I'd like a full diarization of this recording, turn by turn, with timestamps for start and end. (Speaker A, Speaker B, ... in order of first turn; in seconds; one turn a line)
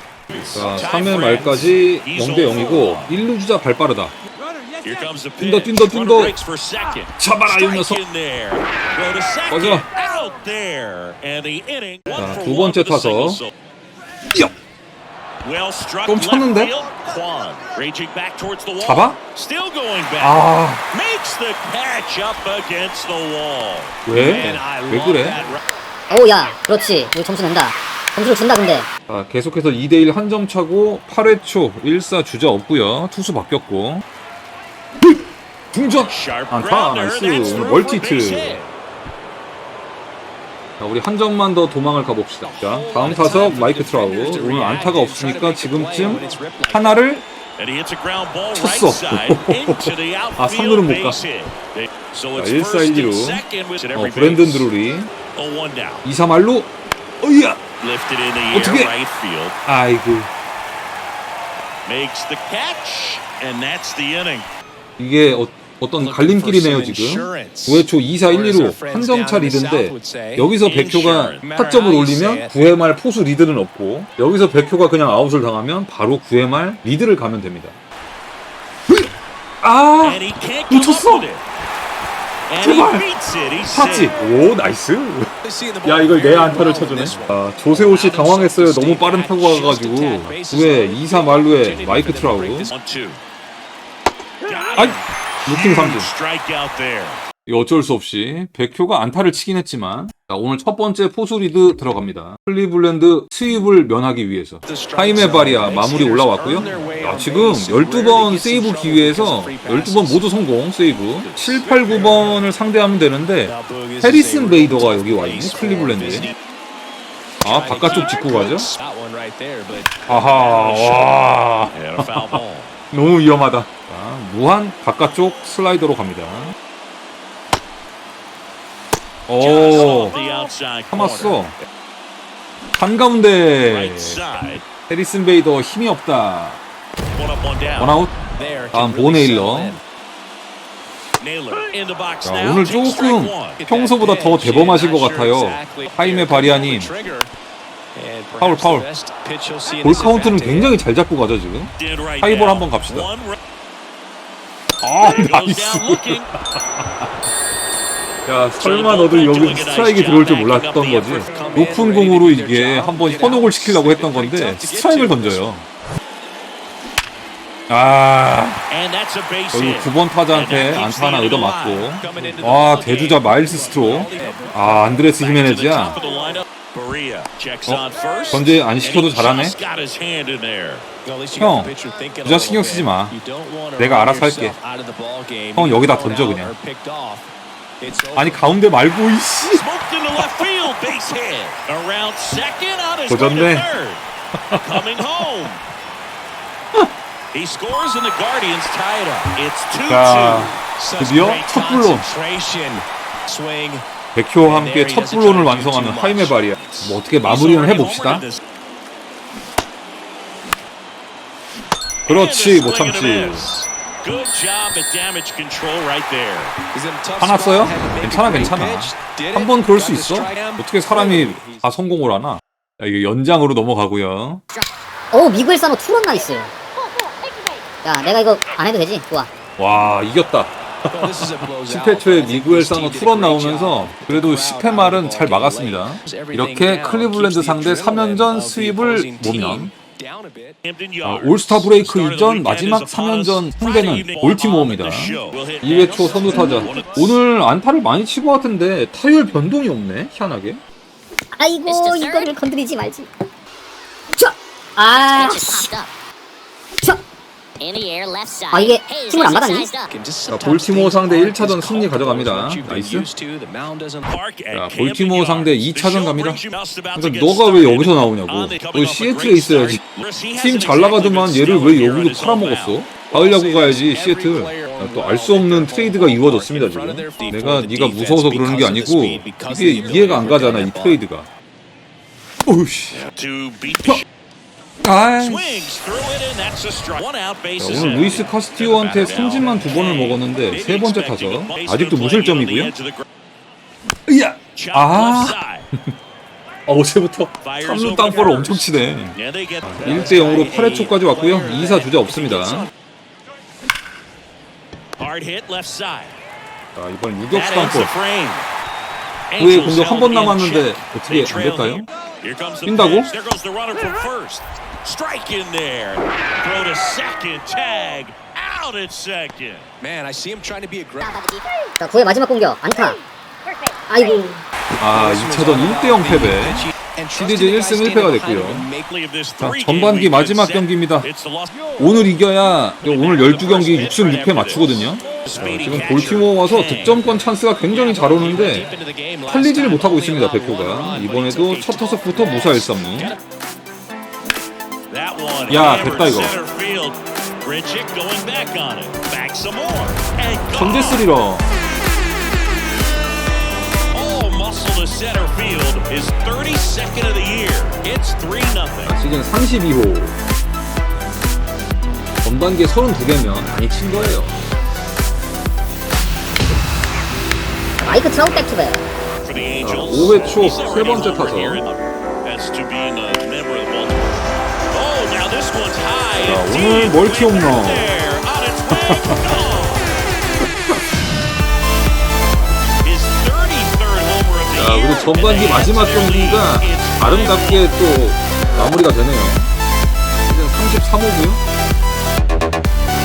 Speaker A: 0.3-3.2
Speaker B: 0.5-4.1
Speaker A: 4.8-13.5
Speaker B: 5.4-6.4
Speaker B: 7.2-8.0
Speaker B: 9.5-9.9
Speaker B: 12.1-13.4
Speaker A: 15.4-24.4
Speaker B: 16.1-16.7
Speaker B: 18.8-19.2
Speaker B: 20.2-20.8
Speaker B: 24.1-25.4
Speaker C: 24.1-25.6
Speaker D: 26.1-28.9
Speaker B: 29.1-34.0
Speaker B: 35.7-38.6
Speaker A: 36.0-38.7
Speaker B: 40.8-47.2
Speaker A: 42.5-43.3
Speaker C: 42.5-47.0
Speaker A: 46.0-46.3
Speaker A: 47.6-54.7
Speaker B: 48.5-51.2
Speaker B: 52.4-55.1
Speaker A: 55.3-56.0
Speaker B: 56.0-56.7
Speaker B: 57.2-57.6
Speaker A: 57.8-59.6
Speaker B: 58.5-58.9
Speaker B: 59.6-60.3
Speaker A: 61.9-64.5
Speaker B: 65.0-77.8
Speaker C: 66.0-70.5
Speaker A: 70.6-71.4
Speaker C: 71.4-72.5
Speaker B: 78.9-81.3
Speaker A: 80.0-81.4
Speaker A: 82.5-84.2
Speaker B: 82.6-83.0
Speaker B: 83.7-85.3
Speaker C: 85.4-92.7
Speaker B: 85.8-92.7
Speaker A: 92.7-93.2
Speaker A: 94.4-97.2
Speaker B: 94.8-96.1
Speaker B: 97.5-116.3
Speaker C: 104.6-110.3
Speaker C: 111.2-112.4
Speaker C: 113.5-116.3
Speaker B: 117.4-118.7
Speaker C: 117.4-121.2
Speaker B: 120.1-122.4
Speaker A: 121.7-122.7
Speaker B: 122.9-126.5
Speaker B: 129.3-130.2
Speaker A: 129.4-131.4
Speaker B: 130.9-131.5
Speaker B: 132.8-134.2
Speaker A: 133.6-134.7
Speaker B: 134.8-136.6
Speaker A: 137.1-138.0
Speaker B: 137.8-138.2
Speaker C: 138.3-139.8
Speaker B: 138.7-139.8
Speaker A: 141.2-143.6
Speaker B: 142.2-146.9
Speaker C: 143.6-147.3
Speaker C: 147.9-150.8
Speaker B: 148.4-148.9
Speaker B: 149.8-153.1
Speaker A: 151.8-153.4
Speaker B: 154.8-157.1
Speaker A: 155.0-156.3
Speaker B: 158.2-165.6
Speaker A: 158.6-161.5
Speaker C: 161.2-165.4
Speaker B: 167.7-168.6
Speaker A: 168.7-171.9
Speaker B: 169.5-176.0
Speaker C: 171.9-176.4
Speaker A: 172.8-173.2
Speaker A: 175.1-180.8
Speaker B: 177.7-179.5
Speaker C: 181.0-188.5
Speaker B: 181.4-181.7
Speaker B: 182.2-183.2
Speaker B: 183.8-184.6
Speaker B: 185.5-186.5
Speaker B: 188.2-189.6
Speaker A: 189.5-195.6
Speaker B: 190.2-190.5
Speaker B: 193.1-193.7
Speaker B: 194.4-194.8
Speaker A: 197.3-200.6
Speaker B: 199.9-202.1
Speaker C: 200.7-203.8
Speaker B: 204.1-208.2
Speaker C: 204.4-206.6
Speaker A: 206.6-208.4
Speaker A: 212.1-216.5
Speaker B: 212.1-213.5
Speaker C: 216.7-221.7
Speaker B: 217.2-224.4
Speaker D: 225.1-226.5
Speaker D: 227.8-229.3
Speaker B: 229.6-239.7
Speaker C: 230.9-240.6
Speaker A: 240.6-247.2
Speaker B: 241.0-250.6
Speaker C: 245.8-246.9
Speaker D: 246.3-246.8
Speaker D: 251.3-253.1
Speaker E: 251.7-252.3
Speaker D: 254.1-255.7
Speaker E: 255.1-255.9
Speaker E: 257.6-259.9
Speaker D: 258.5-259.7
Speaker C: 259.9-264.1
Speaker B: 260.3-263.1
Speaker A: 264.1-272.8
Speaker B: 264.5-266.4
Speaker B: 266.9-269.8
Speaker B: 270.4-281.3
Speaker C: 273.1-281.0
Speaker B: 282.4-283.1
Speaker A: 282.9-284.0
Speaker B: 284.8-285.6
Speaker A: 285.2-293.1
Speaker B: 287.6-292.7
Speaker B: 294.1-295.9
Speaker A: 294.5-295.7
Speaker B: 296.7-302.7
Speaker A: 297.4-300.0
Speaker C: 299.8-302.7
Speaker A: 305.0-306.1
Speaker B: 306.7-307.9
Speaker A: 307.3-308.4
Speaker A: 309.3-319.7
Speaker B: 309.4-311.9
Speaker B: 312.6-313.1
Speaker C: 319.8-321.1
Speaker D: 321.1-323.0
Speaker D: 323.9-324.4
Speaker B: 324.8-328.7
Speaker C: 324.9-328.9
Speaker A: 328.9-331.8
Speaker B: 329.4-331.1
Speaker B: 331.8-338.7
Speaker A: 332.8-337.0
Speaker C: 337.7-343.2
Speaker B: 339.3-343.1
Speaker A: 344.9-351.1
Speaker B: 345.5-346.4
Speaker B: 350.5-351.5
Speaker A: 353.9-359.0
Speaker B: 358.8-360.1
Speaker B: 362.2-364.4
Speaker D: 367.8-368.8
Speaker A: 369.2-374.2
Speaker B: 369.6-371.6
Speaker A: 374.7-379.9
Speaker B: 376.2-377.9
Speaker B: 378.7-379.4
Speaker B: 380.4-380.8
Speaker A: 382.8-387.7
Speaker B: 384.5-389.5
Speaker B: 390.2-391.4